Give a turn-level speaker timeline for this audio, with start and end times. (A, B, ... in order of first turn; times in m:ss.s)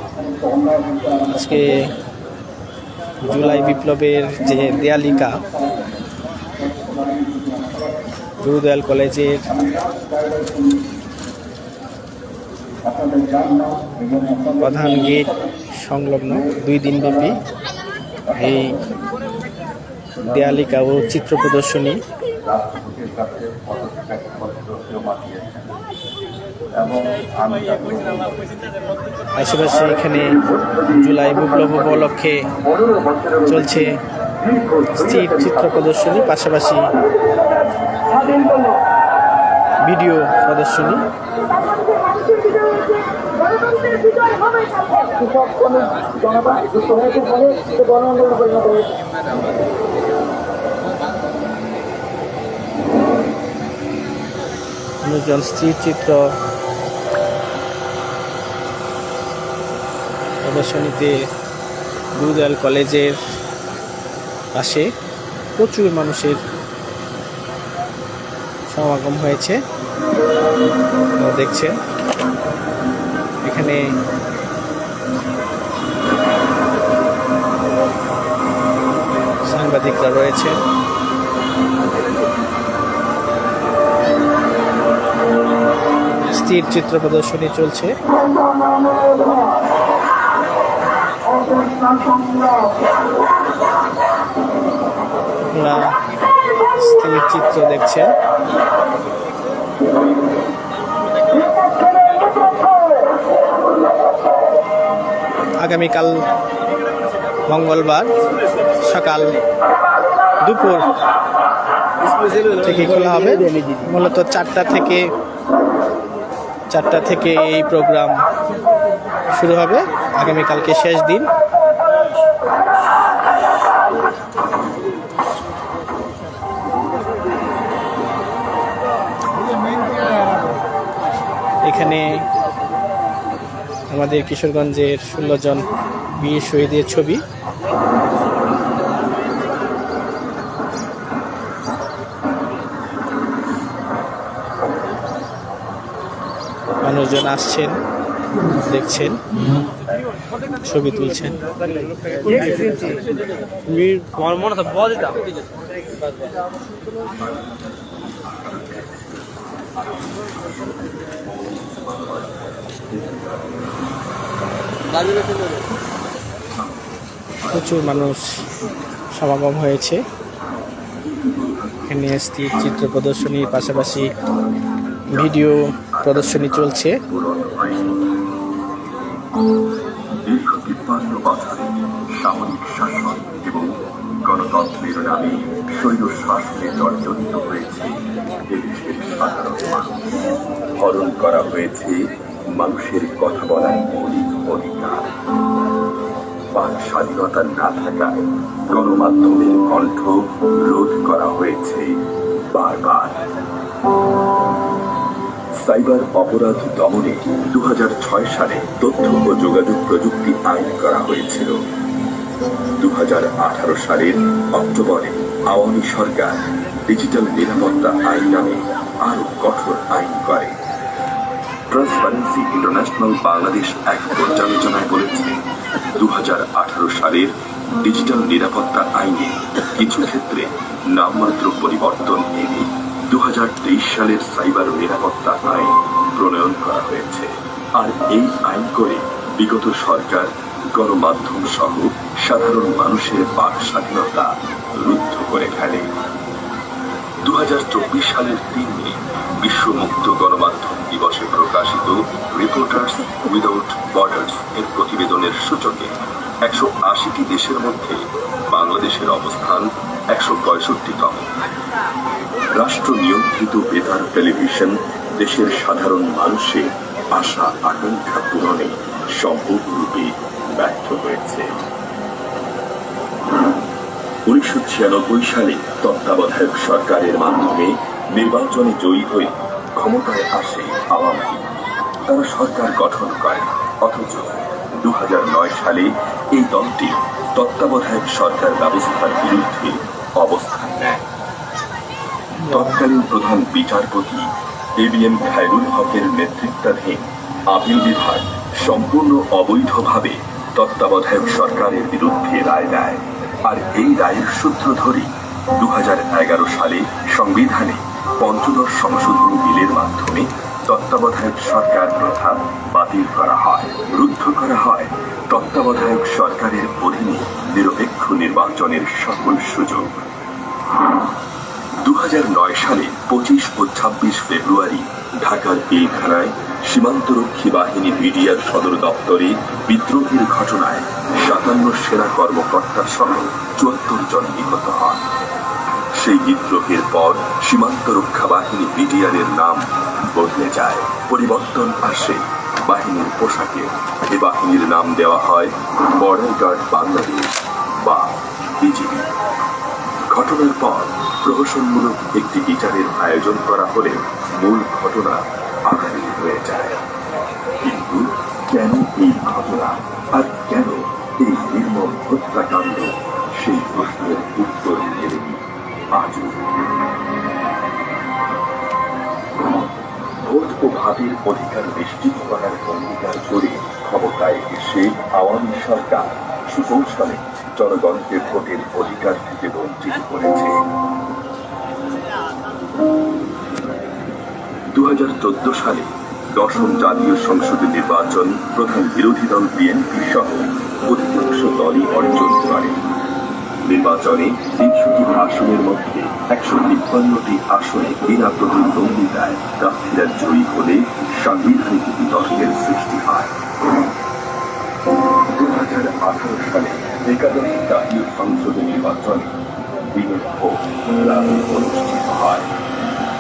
0:01.3-0:01.7 A
0:03.3-0:05.3 A
0:08.4-0:09.6 A
0:14.5-0:17.4 A
0:18.4-0:18.8 A
0:20.2-0:22.0 A
0:22.5-0:25.8 B
0:26.8-0:28.3 B
0:29.4-0:30.4 A
0:30.0-0:32.1 B
0:30.9-0:32.4 A
0:32.6-0:33.8 B
0:33.5-0:33.9 A
0:34.4-0:35.8 B
0:35.0-0:36.9 A
0:39.9-0:41.0 A
0:45.6-0:45.9 C
0:46.9-0:48.7 C
0:55.0-0:56.2 A
1:00.4-1:01.1 A
1:02.2-1:03.2 A
1:04.6-1:04.9 A
1:05.6-1:06.4 A
1:08.7-1:09.6 A
1:11.2-1:11.8 A
1:13.4-1:13.8 A
1:19.5-1:20.6 A
1:26.3-1:27.9 A
1:35.5-1:35.9 A
1:36.8-1:38.1 A
1:45.6-1:46.1 A
1:47.5-1:48.1 A
1:48.8-1:49.3 A
1:50.4-1:50.9 A
1:52.5-1:55.1 A
1:56.7-1:58.2 A
1:59.3-2:01.3 A
2:11.6-2:12.1 A
2:13.9-2:15.7 A
2:16.2-2:17.2 A
2:26.8-2:27.8 A
2:28.7-2:29.2 A
2:30.6-2:31.4 A
2:33.9-2:36.3 B
2:37.1-2:44.0 B
2:45.1-2:45.6 B
2:46.6-2:49.0 B
2:47.5-2:48.2 A
2:49.2-2:50.0 A
2:51.0-2:54.4 B
2:51.9-2:54.1 A
2:55.1-2:58.0 B
2:55.2-2:57.0 A
3:00.2-3:10.0 B
3:10.8-3:12.0 B
3:12.6-3:15.1 B
3:16.5-3:22.0 B
3:22.5-3:23.2 B
3:25.6-3:31.5 B
3:32.8-3:40.6 B
3:41.7-3:45.4 B
3:46.0-4:05.9 B
4:07.2-4:15.9 B
4:16.4-4:18.0 B
4:18.5-4:21.3 B
4:22.6-4:31.5 B
4:34.3-4:41.5 B
4:42.1-4:51.0 B
4:52.4-4:52.8 A
4:52.5-4:54.3 B
4:54.8-5:20.0 B
5:21.8-5:35.0 B
5:36.0-5:48.1 B
5:48.6-5:49.1 B
5:50.1-5:56.8 B
5:57.6-6:05.4 B
6:06.0-6:06.4 B
6:10.2-6:20.6 B
6:24.7-6:32.8 B
6:33.7-6:43.3 B
6:45.3-6:49.4 B
6:49.9-6:52.5 B